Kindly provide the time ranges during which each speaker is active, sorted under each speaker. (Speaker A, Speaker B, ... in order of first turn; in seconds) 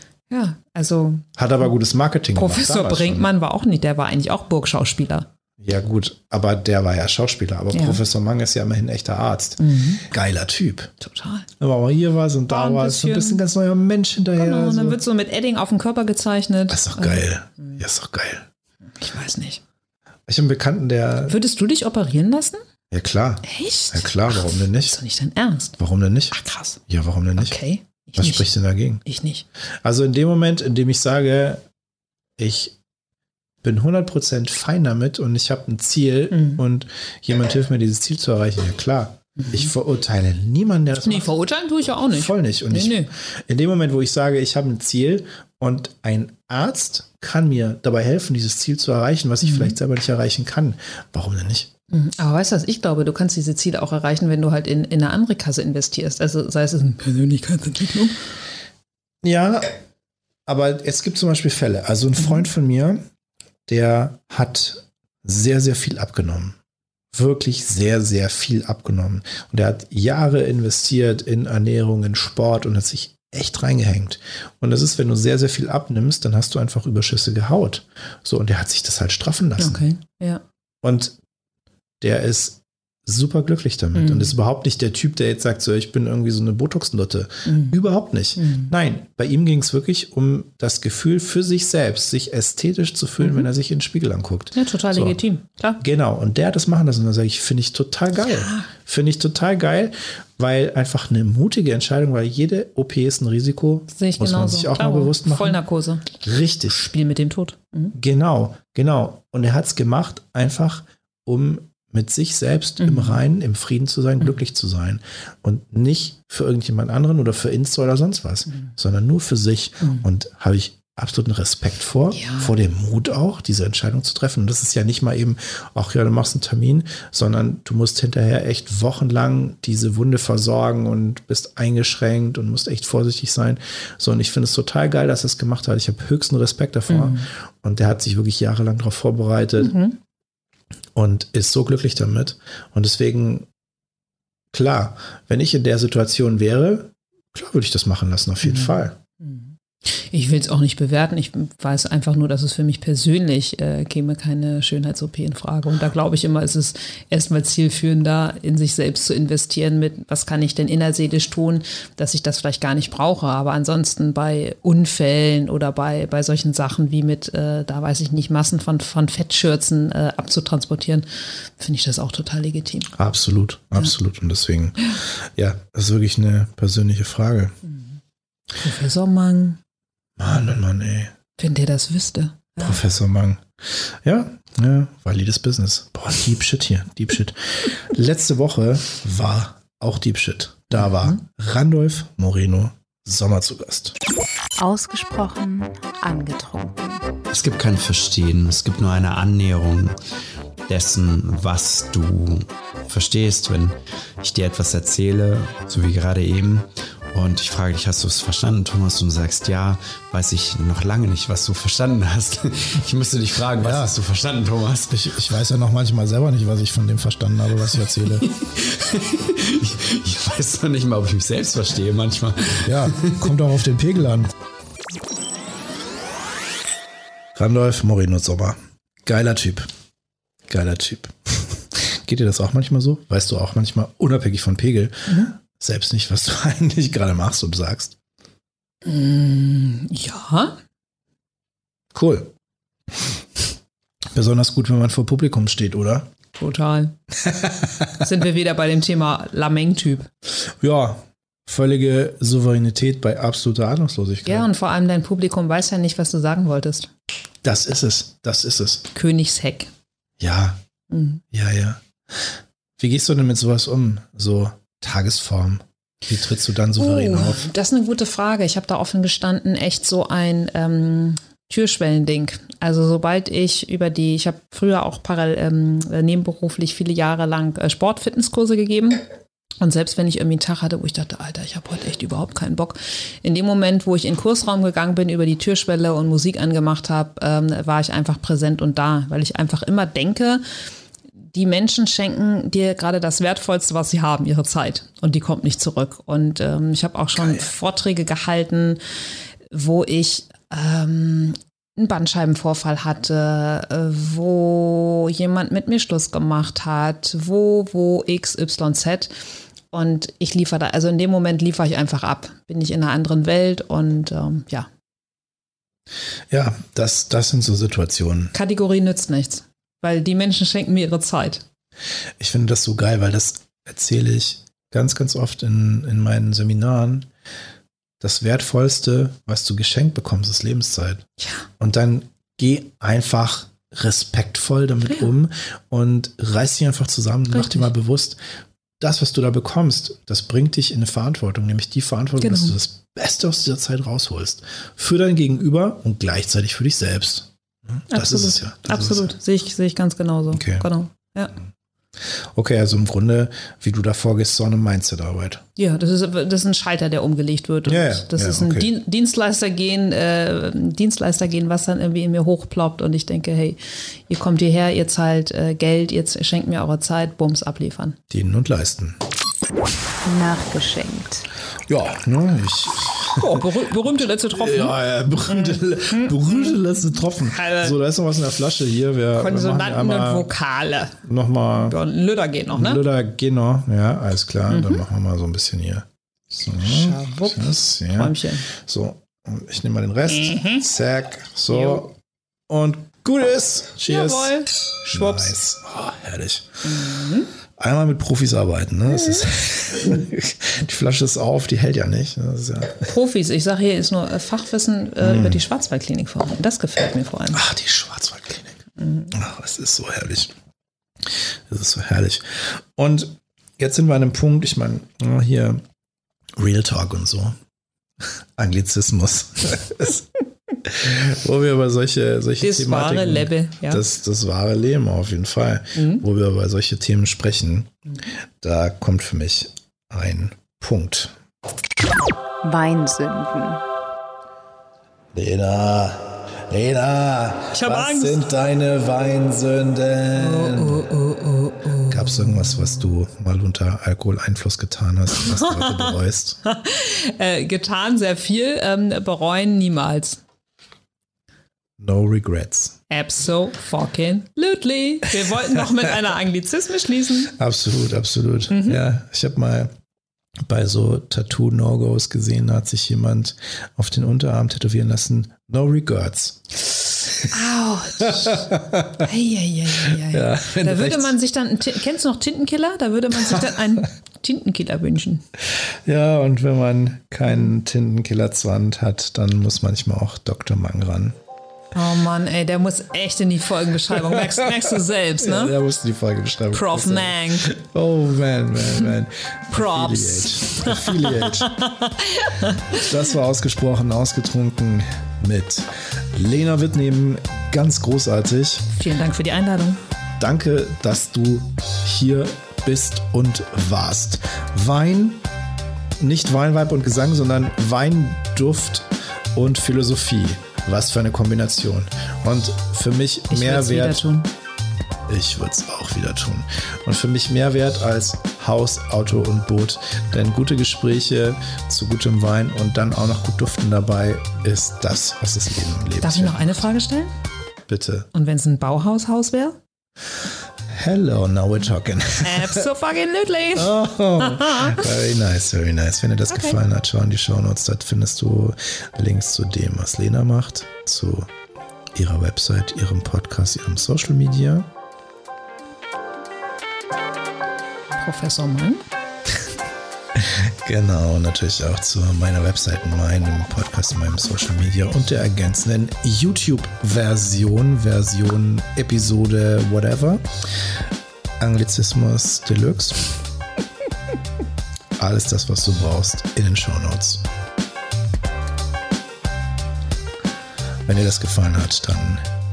Speaker A: 0.3-1.2, 2.3-5.3, 7.7-8.0, 9.6-10.0, 11.0-11.5, 12.5-13.4, 14.4-17.8, 19.0-19.6, 21.3-22.6, 23.4-25.8, 26.3-26.8, 27.4-28.5, 29.0-29.4, 36.3-36.6, 39.4-39.7, 41.0-43.1, 49.4-49.7, 51.9-58.2, 79.6-80.4, 83.9-84.3, 87.5-87.7, 88.4-88.7, 93.2-93.5, 94.5-95.8, 98.2-98.7, 103.9-106.2, 106.7-107.9, 112.8-113.2, 122.1-122.5, 136.9-137.3, 139.6-140.0, 148.4-171.1, 171.6-172.9, 177.6-178.0, 178.6-179.6, 181.4-182.8, 238.8-240.6, 246.3-246.9, 248.0-250.1, 254.2-256.9, 258.9-259.7, 260.9-261.2, 266.8-279.0, 279.6-290.4, 291.3-298.8, 299.5-309.1, 309.7-314.7, 318.3-321.4, 331.2-331.4, 334.9-335.1, 337.3-337.7, 342.2-342.6, 347.9-351.3, 355.6-368.0, 373.2-377.8, 379.1-380.9, 381.6-382.8, 384.5-384.9, 386.5-388.4, 390.1-390.6, 391.5-391.8, 393.9-395.4, 396.6-397.3, 398.9-399.3, 402.9-407.4, 408.8-409.1, 422.4-423.8, 425.8-426.0, 437.5-438.2, 440.1-442.8, 445.2-450.2, 452.9-457.3, 458.5-458.8, 467.3-475.2, 481.7-485.6, 486.5-487.5, 488.6-488.9, 489.5-492.9, 498.7-499.8, 513.3-514.3, 526.0-527.1, 528.1-529.6, 532.2-534.9, 536.3-536.6, 547.9-548.8
Speaker B: 1.4-3.3, 5.6-10.9, 11.6-15.0, 16.7-18.4, 20.3-21.4, 22.9-25.0, 25.8-26.4, 26.9-27.6, 28.1-29.0, 29.8-31.6, 32.4-32.7, 33.6-41.3, 42.0-51.7, 59.2-59.7, 60.5-63.0, 63.7-66.5, 67.1-79.9, 80.8-81.2, 82.0-95.2, 95.8-105.6, 106.2-106.9, 107.9-139.8, 140.9-143.5, 144.5-148.9, 172.9-177.6, 180.2-181.1, 182.6-193.9, 213.6-213.9, 214.9-218.2, 222.6-224.3, 227.3-229.7, 230.5-237.9, 241.9-242.3, 244.1-246.1, 250.4-254.5, 257.4-258.9, 260.2-260.6, 261.3-267.5, 316.3-318.3, 322.2-327.1, 328.0-331.1, 331.6-338.2, 338.8-349.1, 350.3-350.7, 352.0-355.4, 357.6-358.7, 368.1-369.0, 371.7-373.4, 374.3-380.3, 381.0-381.7, 382.5-391.9, 392.5-396.9, 397.6-402.9, 405.0-405.4, 407.3-408.6, 409.1-410.3, 411.1-415.6, 416.4-417.4, 418.4-420.1, 420.6-427.8, 428.4-431.1, 435.1-440.8, 441.9-446.4, 451.8-452.8, 457.4-459.7, 460.4-466.5, 468.0-469.0, 469.8-471.1, 475.5-481.1, 484.0-491.6, 492.7-498.7, 500.2-505.2, 506.0-514.1, 515.1-526.6, 527.7-528.1, 530.7-532.7, 533.5-541.3, 541.9-544.7, 550.2-560.2, 561.4-563.1, 565.0-567.2, 570.9-572.2
Speaker C: 194.6-197.2, 370.0-371.3, 432.4-433.6
Speaker D: 197.3-199.9, 200.7-214.9, 218.0-223.3